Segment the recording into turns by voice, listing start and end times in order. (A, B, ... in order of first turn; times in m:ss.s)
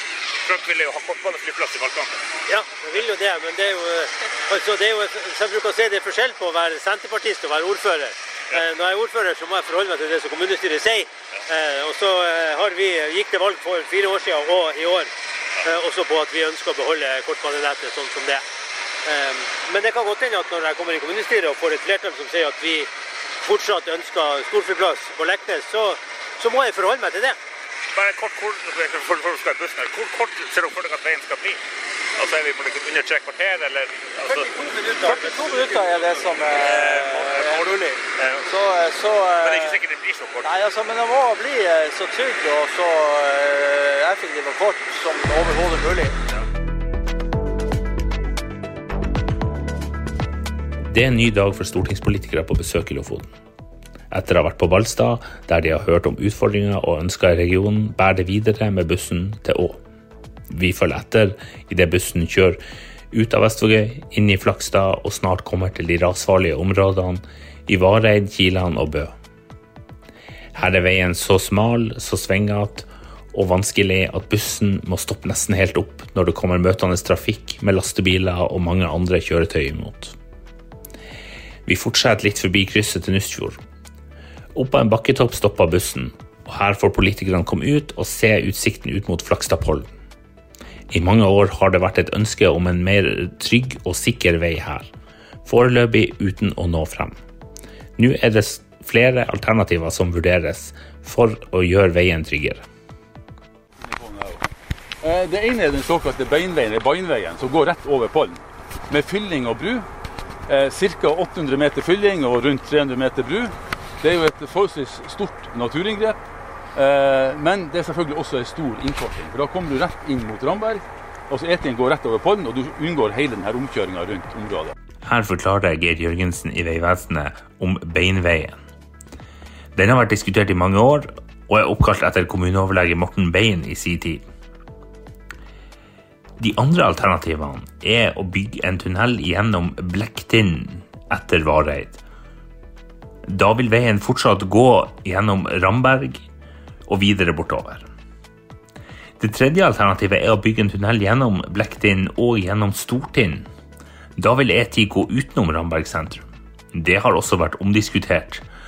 0:00.4-0:02.2 A
0:02.5-0:18.4 B
0:19.0-0:22.9 B
0:23.4-0:27.4 B
0:28.0-0:31.6 A
0:32.2-0:34.5 A
0:34.4-0:39.8 C
0:36.7-0:37.6 A
0:39.4-0:40.5 A
0:40.4-0:46.2 C
0:50.9-0:53.3 D
0:54.1-0:59.8 D
1:00.5-1:02.6 D
1:03.1-1:09.1 D
1:10.5-1:20.2 D
1:21.7-1:23.6 D
1:24.6-1:29.9 D
1:30.9-1:34.9 D
1:35.5-1:37.1 D
1:38.0-1:42.6 D
1:43.8-1:44.5 E
1:45.0-1:49.9 E
1:50.5-1:56.2 E
1:56.8-2:04.7 E
2:05.0-2:08.6 D
2:09.7-2:14.2 D
2:16.4-2:22.0 D
2:23.3-2:26.2 D
2:26.9-2:27.8 D
2:29.2-2:33.5 D
2:34.2-2:38.4 D